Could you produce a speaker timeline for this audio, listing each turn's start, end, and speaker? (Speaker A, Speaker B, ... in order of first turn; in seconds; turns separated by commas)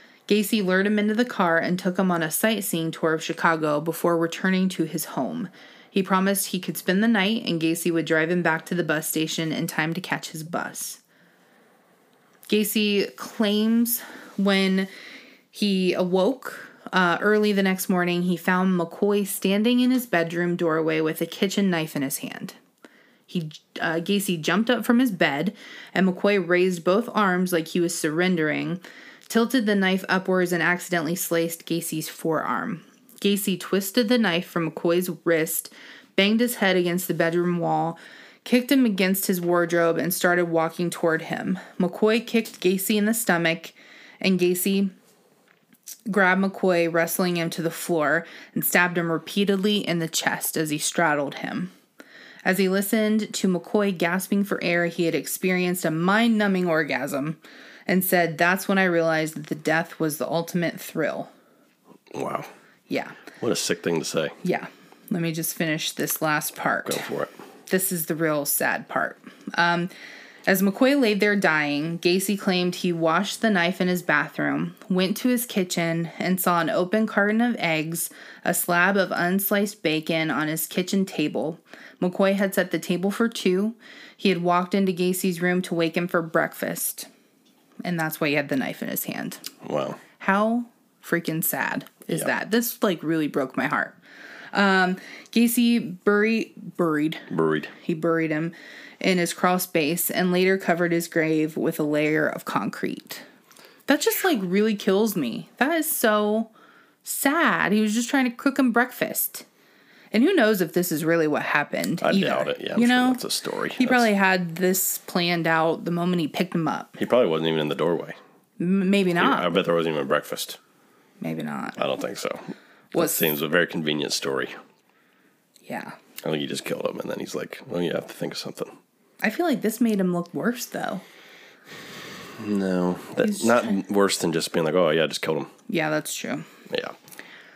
Speaker A: 0.3-11.0, Speaker A: 12.5-14.9, Speaker A: 15.5-22.6, Speaker A: 23.3-44.9, Speaker A: 46.1-51.7, Speaker A: 52.4-61.3, Speaker B: 62.1-62.5, Speaker A: 62.9-63.2, Speaker B: 63.4-64.4, Speaker A: 64.4-67.0, Speaker B: 66.9-67.3, Speaker A: 67.7-69.9, Speaker A: 70.5-87.1, Speaker A: 87.8-89.4, Speaker B: 89.6-90.0, Speaker A: 90.2-94.0, Speaker A: 94.5-97.3, Speaker B: 97.3-97.7, Speaker A: 97.8-103.2, Speaker A: 103.9-106.5, Speaker A: 107.0-109.5, Speaker A: 110.1-113.2, Speaker B: 112.0-114.1, Speaker A: 113.7-117.0, Speaker B: 117.0-118.2, Speaker A: 118.6-119.5, Speaker B: 119.2-120.6, Speaker A: 121.2-121.8, Speaker B: 121.8-124.5, Speaker A: 122.9-123.2, Speaker A: 125.7-126.0, Speaker B: 126.2-128.8, Speaker A: 129.2-131.0, Speaker B: 132.3-135.5, Speaker A: 133.2-133.8, Speaker A: 135.7-136.5, Speaker B: 136.7-136.9